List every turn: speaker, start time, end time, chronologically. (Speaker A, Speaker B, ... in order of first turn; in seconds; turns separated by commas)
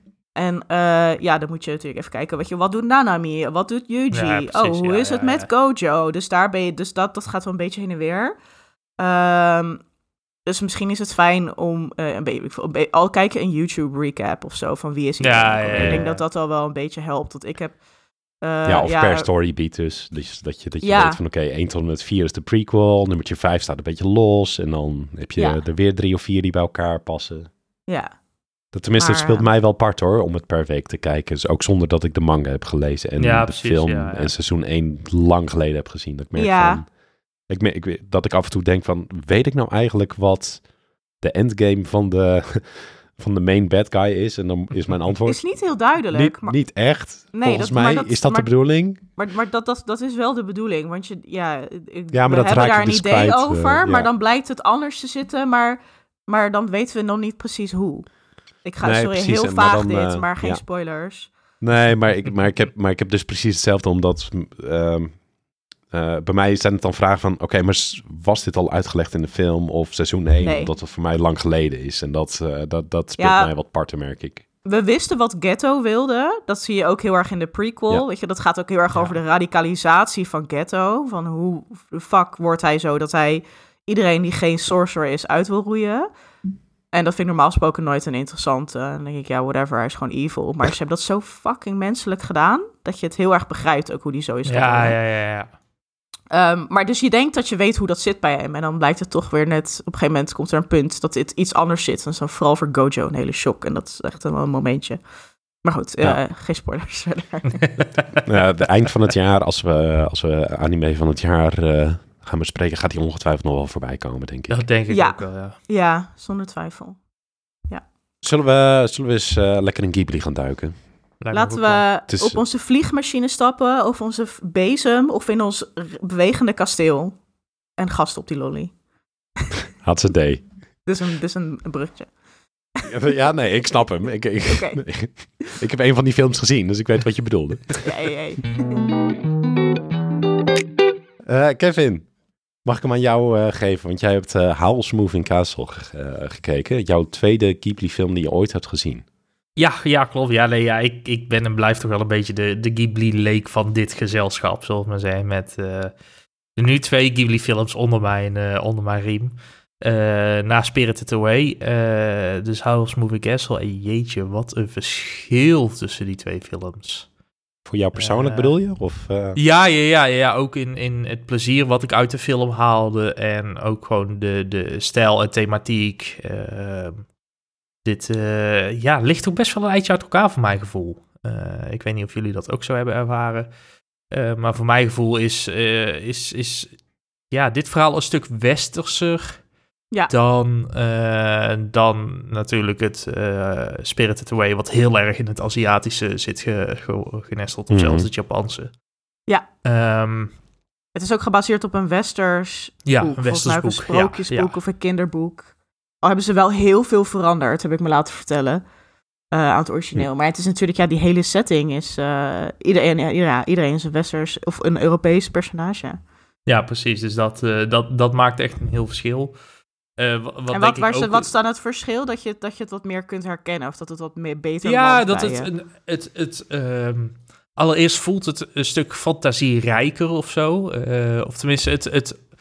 Speaker A: 0.3-8.3, Speaker B: 4.1-5.5, Speaker A: 9.0-9.8, Speaker A: 10.5-17.8, Speaker B: 15.2-16.2, Speaker C: 15.8-16.0, Speaker A: 18.4-19.3, Speaker C: 18.6-27.5, Speaker A: 20.8-21.2, Speaker A: 25.4-25.6, Speaker C: 28.7-36.9, Speaker A: 29.0-29.5, Speaker B: 33.2-34.3, Speaker A: 36.4-36.8, Speaker C: 37.5-40.7, Speaker C: 41.2-45.5, Speaker A: 45.2-46.6, Speaker C: 46.1-49.1, Speaker A: 47.3-58.1, Speaker C: 52.1-54.1, Speaker A: 58.6-61.3, Speaker C: 58.8-60.6, Speaker C: 61.6-65.2, Speaker C: 65.9-74.4, Speaker A: 70.4-70.7, Speaker A: 73.2-73.5, Speaker A: 74.6-86.1, Speaker B: 78.9-79.2, Speaker A: 86.9-95.0, Speaker B: 94.5-95.5, Speaker A: 96.3-105.0, Speaker A: 105.6-107.6, Speaker C: 108.2-114.6, Speaker B: 114.5-115.6, Speaker A: 114.9-117.0, Speaker C: 118.2-120.8, Speaker B: 121.2-121.8, Speaker A: 121.3-127.2, Speaker C: 122.1-122.4, Speaker A: 127.8-128.7, Speaker C: 129.8-130.4, Speaker A: 130.9-132.1, Speaker C: 132.9-137.9, Speaker A: 134.5-134.8, Speaker A: 137.8-138.7, Speaker C: 141.2-142.1, Speaker C: 142.6-149.0, Speaker B: 149.6-155.9, Speaker B: 156.6-167.1, Speaker C: 167.7-169.4, Speaker B: 167.9-168.5, Speaker B: 169.4-177.1, Speaker B: 177.8-183.5, Speaker B: 184.1-186.8, Speaker B: 187.3-189.4, Speaker B: 190.1-198.7, Speaker C: 197.7-198.1, Speaker B: 199.6-200.4, Speaker A: 200.9-205.5, Speaker B: 202.9-204.6, Speaker A: 206.0-208.6, Speaker A: 209.3-216.0, Speaker B: 216.5-219.4, Speaker B: 220.0-221.3, Speaker A: 220.5-225.5, Speaker B: 224.6-232.2